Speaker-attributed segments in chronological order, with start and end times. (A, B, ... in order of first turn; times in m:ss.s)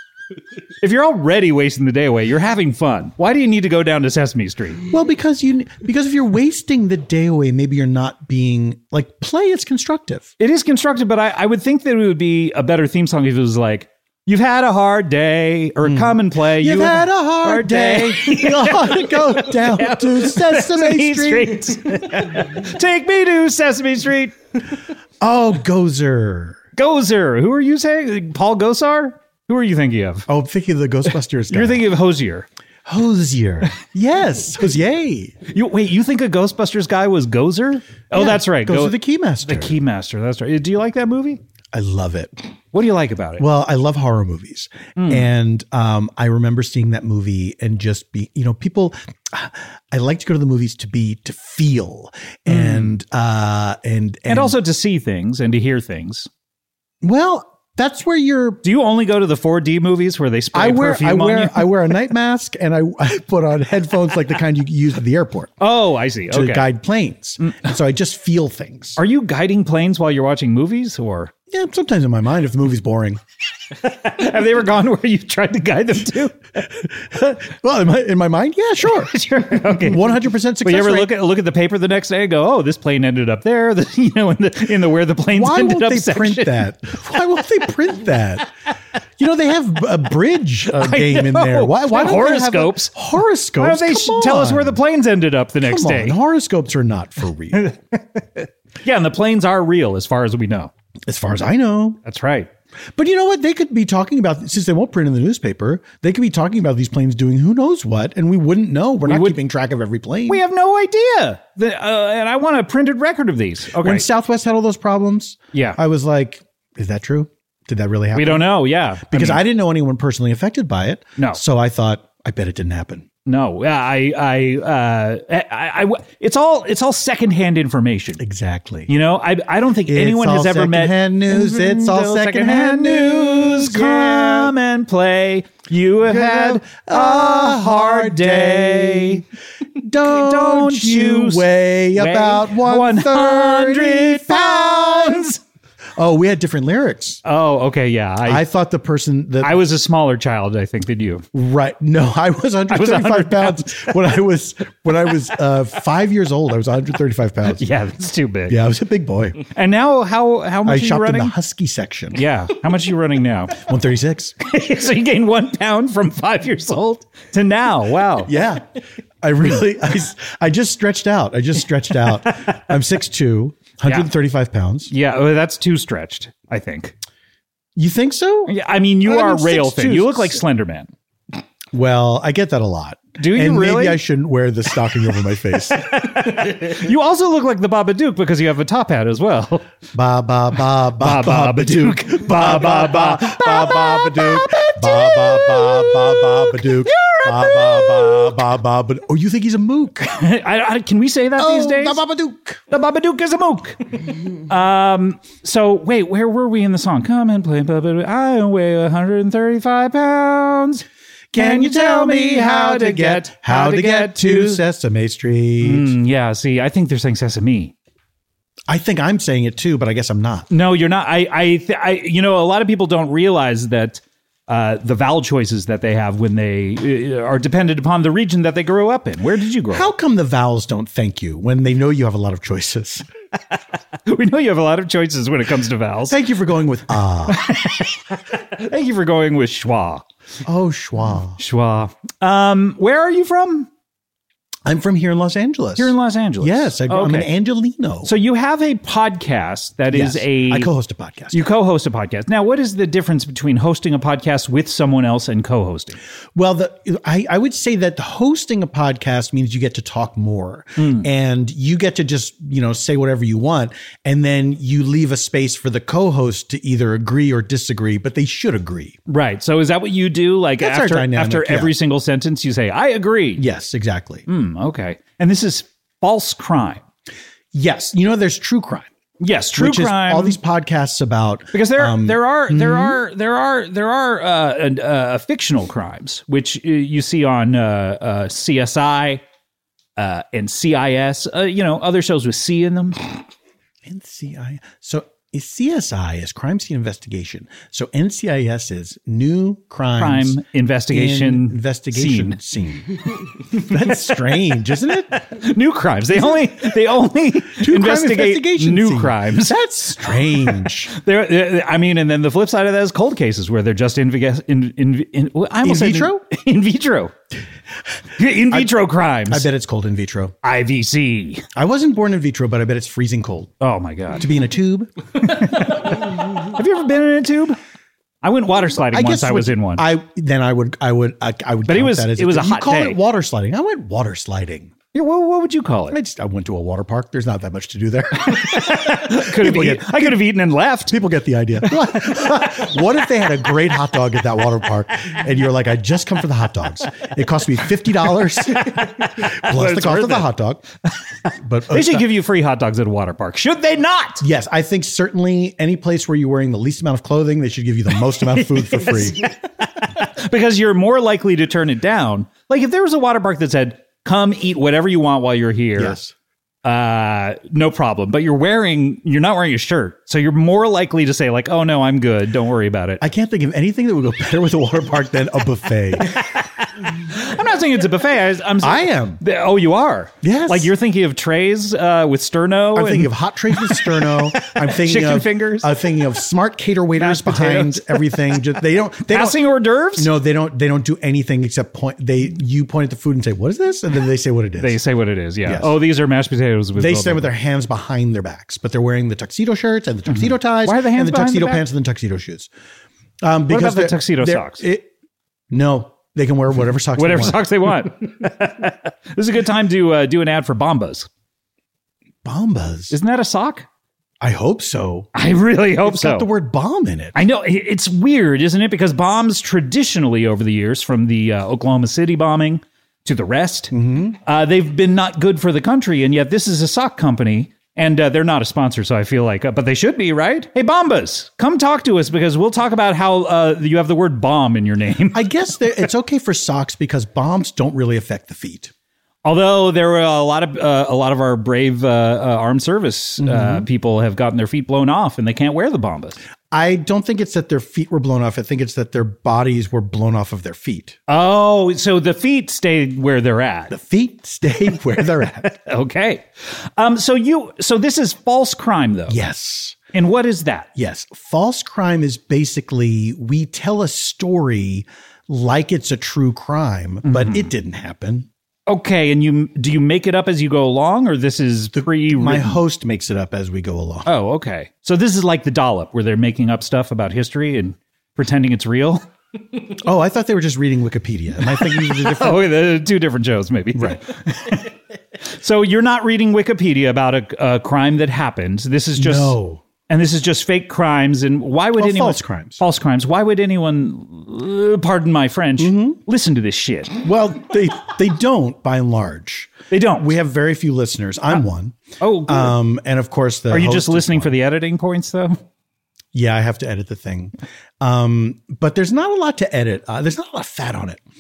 0:00.8-0:04.8 A
0:04.9-0:10.3 B
0:10.4-0:24.3 A
0:15.8-0:22.2 B
0:25.2-0:26.6 B
0:26.8-0:30.3 A
0:30.3-0:31.9 B
0:31.5-0:32.5 A
0:32.8-0:35.4 B
0:35.5-0:41.4 A
0:38.1-0:39.8 B
0:41.7-0:42.4 B
0:42.7-0:43.4 A
0:43.4-0:54.6 B
0:45.0-0:45.3 A
0:52.5-0:53.0 A
0:54.3-0:56.3 A
0:57.0-0:58.6 B
0:58.6-1:01.9 A
1:00.5-1:05.6 B
1:05.6-1:06.7 A
1:06.3-1:09.0 B
1:07.4-1:07.7 A
1:09.0-1:11.3 A
1:11.5-1:13.2 B
1:13.8-1:16.4 A
1:16.6-1:19.1 B
1:19.1-1:26.6 A
1:19.7-1:21.1 B
1:25.3-1:28.5 B
1:29.2-1:34.8 B
1:30.8-1:32.9 A
1:33.6-1:36.2 A
1:35.6-1:37.7 B
1:37.5-1:40.7 A
1:41.1-1:42.0 B
1:42.0-1:42.5 A
1:42.9-1:50.4 B
1:49.1-1:49.4 A
1:50.3-1:54.1 A
1:53.8-2:03.1 B
1:55.5-1:55.8 A
1:58.1-1:59.4 A
2:03.3-2:08.2 A
2:08.2-2:08.9 B
2:08.9-2:19.2 A
2:09.9-2:14.5 B
2:16.0-2:19.2 B
2:19.8-2:25.3 B
2:20.0-2:25.4 A
2:26.0-2:27.2 B
2:27.2-2:28.5 A
2:28.3-2:29.6 B
2:29.4-2:31.3 A
2:31.3-2:37.7 B
2:32.7-2:34.0 A
2:37.6-2:38.6 A
2:38.5-2:39.4 B
2:39.5-2:41.3 A
2:40.6-2:42.2 B
2:42.2-2:43.6 A
2:43.5-2:44.4 B
2:44.4-2:48.3 A
2:48.3-2:48.7 B
2:49.2-2:54.9 B
2:54.9-2:57.0 A
2:57.8-3:00.4 B
2:58.5-3:00.9 A
3:01.7-3:06.5 B
3:03.2-3:04.0 A
3:05.7-3:09.7 A
3:09.9-3:20.2 B
3:11.0-3:18.3 A
3:20.1-3:22.0 A
3:21.4-3:22.6 B
3:22.7-3:23.8 A
3:24.3-3:30.8 A
3:31.3-3:35.9 B
3:31.4-3:34.6 A
3:35.6-3:37.7 A
3:38.7-3:40.5 B
3:40.5-3:49.9 A
3:49.7-3:53.1 B
3:54.1-3:56.2 A
3:56.1-3:57.5 B
3:57.3-4:00.1 A
4:00.4-4:01.4 B
4:01.4-4:03.7 A
4:04.6-4:08.1 B
4:05.8-4:07.3 A
4:08.0-4:10.7 A
4:09.9-4:11.4 B
4:11.3-4:16.0 A
4:16.4-4:29.0 B
4:20.8-4:21.1 A
4:29.1-4:33.4 A
4:30.6-4:31.7 B
4:33.4-4:34.2 B
4:34.3-4:36.8 A
4:37.5-4:38.9 B
4:39.2-4:40.4 A
4:39.5-4:43.0 B
4:41.5-4:49.2 A
4:50.0-4:53.1 A
4:53.8-5:00.4 B
5:00.0-5:02.4 A
5:00.9-5:05.3 B
5:05.3-5:09.6 A
5:06.1-5:06.5 B
5:07.6-5:10.9 B
5:10.4-5:17.1 A
5:15.6-5:16.2 B
5:18.2-5:19.5 A
5:19.3-5:20.4 B
5:20.4-5:21.5 A
5:21.6-5:23.5 B
5:23.6-5:24.3 A
5:24.2-5:24.9 B
5:25.2-5:27.6 A
5:28.2-5:29.9 A
5:28.8-5:34.7 B
5:31.7-5:33.0 A
5:34.9-5:36.0 A
5:35.9-5:40.3 B
5:38.2-5:41.0 A
5:40.9-5:50.6 B
5:48.5-5:50.3 A
5:51.3-5:52.1 B
5:51.7-5:54.2 A
5:54.2-5:59.3 B
5:58.3-6:06.0 A
6:05.8-6:06.1 B
6:06.6-6:13.0 A
6:13.0-6:16.2 B
6:16.1-6:25.7 A
6:18.6-6:19.2 B
6:20.2-6:20.7 B
6:22.7-6:34.8 B
6:27.0-6:28.4 A
6:29.0-6:30.1 A
6:34.6-6:37.3 A
6:35.4-6:35.8 B
6:36.8-6:42.5 B
6:40.1-6:41.6 A
6:43.2-6:44.9 B
6:43.5-6:44.7 A
6:45.5-6:47.4 B
6:47.0-6:51.1 A
6:52.2-6:52.9 B
6:52.9-6:53.7 A
6:54.2-6:55.1 B
6:55.2-6:56.3 A
6:55.8-6:57.2 B
6:57.2-7:03.7 A
7:03.7-7:04.2 B
7:04.2-7:15.2 A
7:15.1-7:18.7 B
7:19.2-7:26.2 A
7:23.2-7:23.7 B
7:26.5-7:31.0 B
7:31.1-7:33.8 A
7:33.7-7:35.5 B
7:35.2-7:39.2 A
7:39.1-7:39.8 B
7:39.9-7:40.7 A
7:40.8-7:48.3 B
7:47.0-7:47.5 A
7:48.7-7:52.6 A
7:51.7-7:54.1 B
7:54.1-7:59.0 A
7:59.8-8:02.6 B
8:01.6-8:04.7 A
8:03.8-8:04.0 B
8:05.3-8:09.4 A
8:09.0-8:09.6 B
8:09.9-8:17.0 A
8:11.8-8:12.6 B
8:15.6-8:16.0 B
8:17.0-8:24.3 B
8:19.7-8:20.1 A
8:22.0-8:22.6 A
8:23.5-8:25.4 A
8:26.1-8:31.0 B